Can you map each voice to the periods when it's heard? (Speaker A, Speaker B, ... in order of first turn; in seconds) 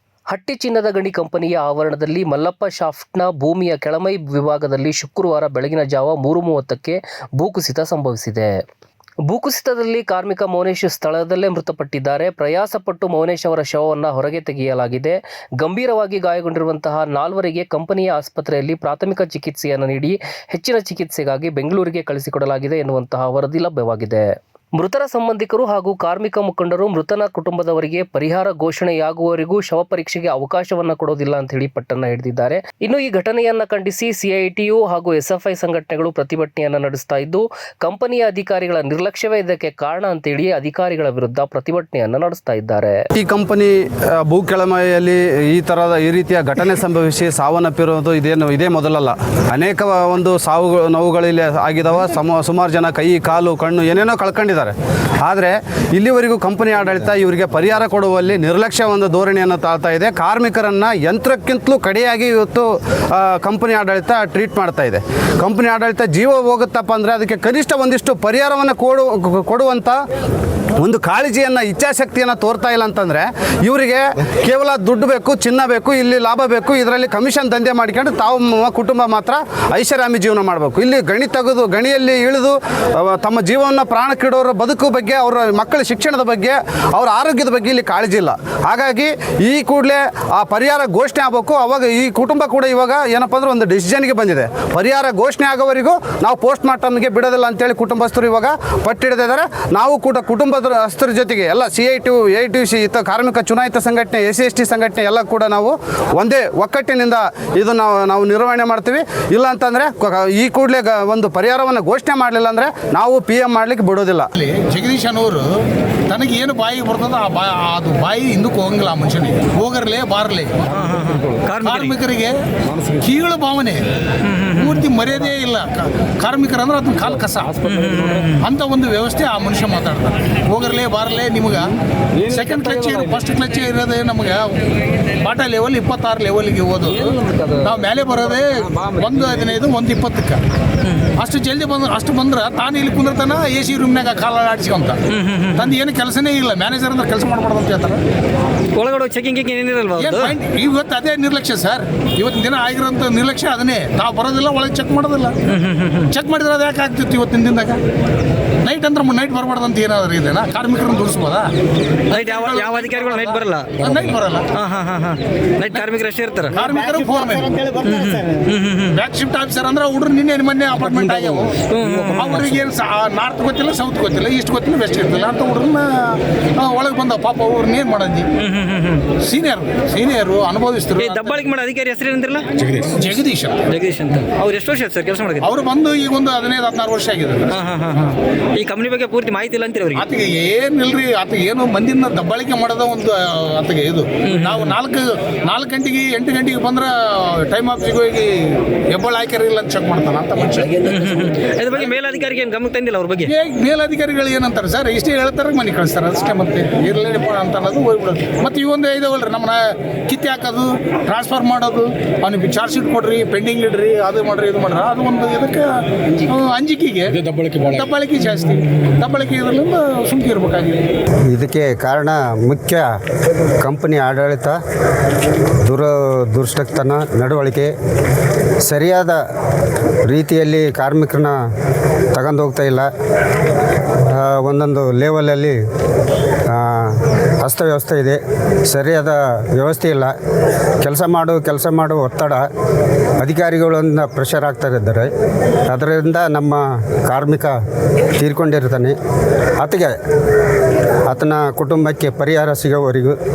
Speaker A: 0.3-8.6, 9.3-43.0
Speaker B: 43.1-70.0, 70.8-114.3
Speaker C: 114.3-115.5, 116.1-120.7, 121.6-123.8, 124.6-127.7, 128.3-131.7, 132.2-140.4, 141.2-145.0, 145.6-148.0, 150.0-155.4, 156.1-157.8, 158.6-161.5, 162.1-164.5, 166.5-167.7, 168.9-178.3, 179.2-181.5, 182.8-183.6, 185.4-187.5, 189.9-200.8, 203.3-220.8
Speaker D: 120.7-122.0, 124.2-124.8, 127.6-128.4, 145.1-145.7, 148.8-150.3, 155.5-156.1, 162.1-166.7, 167.8-169.0, 170.9-172.6, 178.4-179.1, 181.0-183.0, 183.7-185.5, 187.5-190.0, 194.3-194.8, 200.8-203.3
Speaker E: 221.3-222.9, 223.6-224.6, 225.6-227.7, 228.6-229.2, 230.1-231.4, 232.1-232.9, 234.1-235.6, 236.5-240.2, 240.8-242.5, 243.2-245.1, 245.7-247.6, 248.2-249.0, 249.6-250.0, 251.1-253.2